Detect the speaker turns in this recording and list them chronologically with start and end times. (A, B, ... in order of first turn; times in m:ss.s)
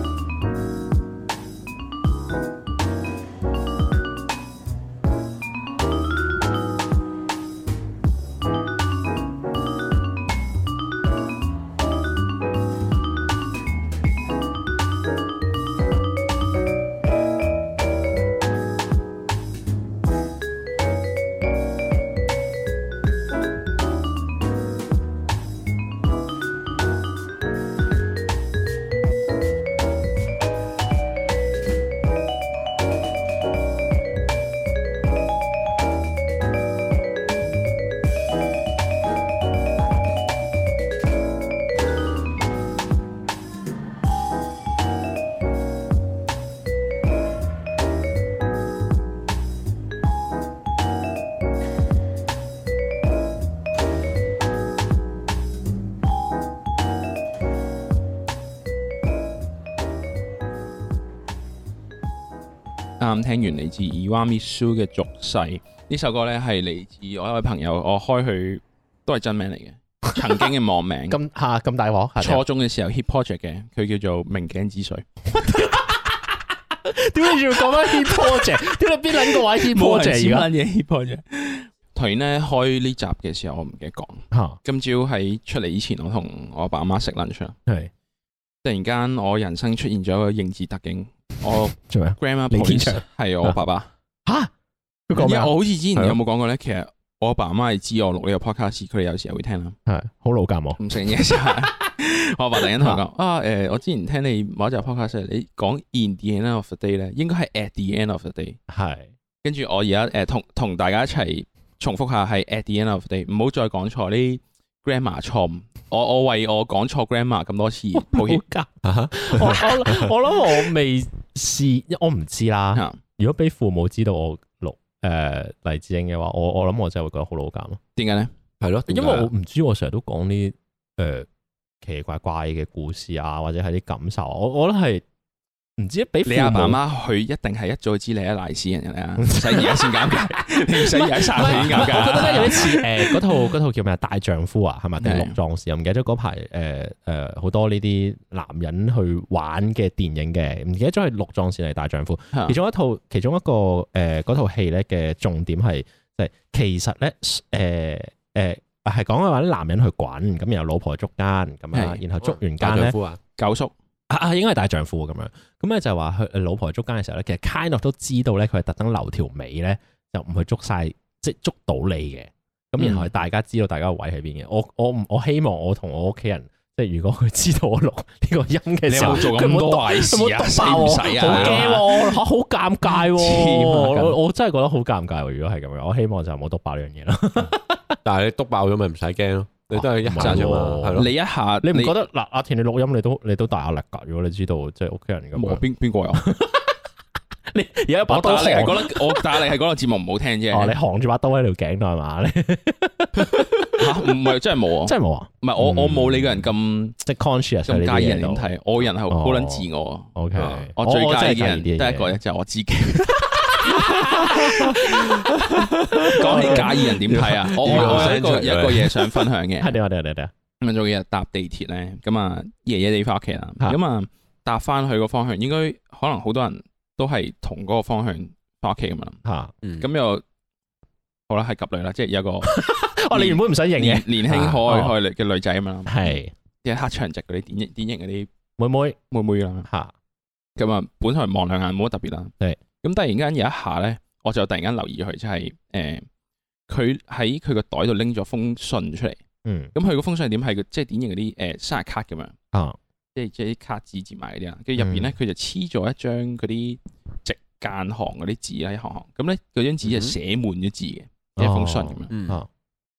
1:03.0-1:11.2 A
1:11.1-1:12.4 B
1:12.2-1:15.0 A
1:15.3-1:20.5 B
1:19.6-1:27.6 A
1:24.3-1:24.6 B
1:28.6-1:33.9 A
1:31.8-1:33.6 B
1:34.2-1:34.5 B
1:35.1-1:35.5 B
1:35.1-1:39.8 A
1:39.8-1:40.8 B
1:40.8-1:48.6 A
1:48.7-1:49.1 B
1:49.4-1:58.4 A
1:57.9-2:07.8 B
1:58.8-2:00.1 C
2:08.0-2:08.3 A
2:08.6-2:09.3 C
2:08.9-2:11.3 B
2:11.8-2:15.0 B
2:15.8-2:16.8 B
2:16.2-2:23.2 A
2:19.2-2:19.9 B
2:20.7-2:43.0 B
2:25.0-2:25.4 A
2:41.7-2:42.0 A
2:42.2-2:43.2 C
2:43.4-2:43.7 A
2:44.1-3:08.0 B
2:52.8-2:53.1 A
2:58.9-3:02.1 A
3:01.2-3:01.7 C
3:03.0-3:04.2 A
3:08.0-3:11.1 C
3:09.7-3:11.1 B
3:10.2-3:12.0 A
3:11.6-3:15.6 B
3:15.3-3:16.2 A
3:16.2-3:16.8 B
3:17.5-3:19.4 B
3:18.1-3:20.8 A
3:20.5-3:23.7 B
3:23.8-3:27.0 A
3:24.8-3:26.5 B
3:27.0-3:28.5 B
3:27.7-3:30.1 A
3:29.1-3:32.2 B
3:30.4-3:30.7 C
3:30.8-3:34.8 A
3:33.2-3:35.0 B
3:34.4-3:39.2 C
3:35.9-3:36.9 B
3:36.1-3:39.8 A
3:37.6-3:38.2 B
3:39.6-3:40.3 B
3:40.6-3:49.2 A
3:49.2-3:49.5 B
3:49.6-3:49.9 C
3:49.8-3:50.2 A
3:51.3-3:52.5 A
3:52.4-3:54.9 B
3:53.1-3:58.3 A
3:55.9-3:56.3 B
3:58.6-3:59.0 B
3:59.1-3:59.7 A
3:59.6-3:59.9 B
4:00.6-4:06.0 A
4:06.7-4:09.2 A
4:09.4-4:09.7 B
4:09.7-4:12.3 A
4:12.5-4:12.8 B
4:13.1-4:22.1 A
4:14.8-4:15.1 B
4:19.8-4:20.1 C
4:21.4-4:22.5 B
4:22.1-4:22.4 C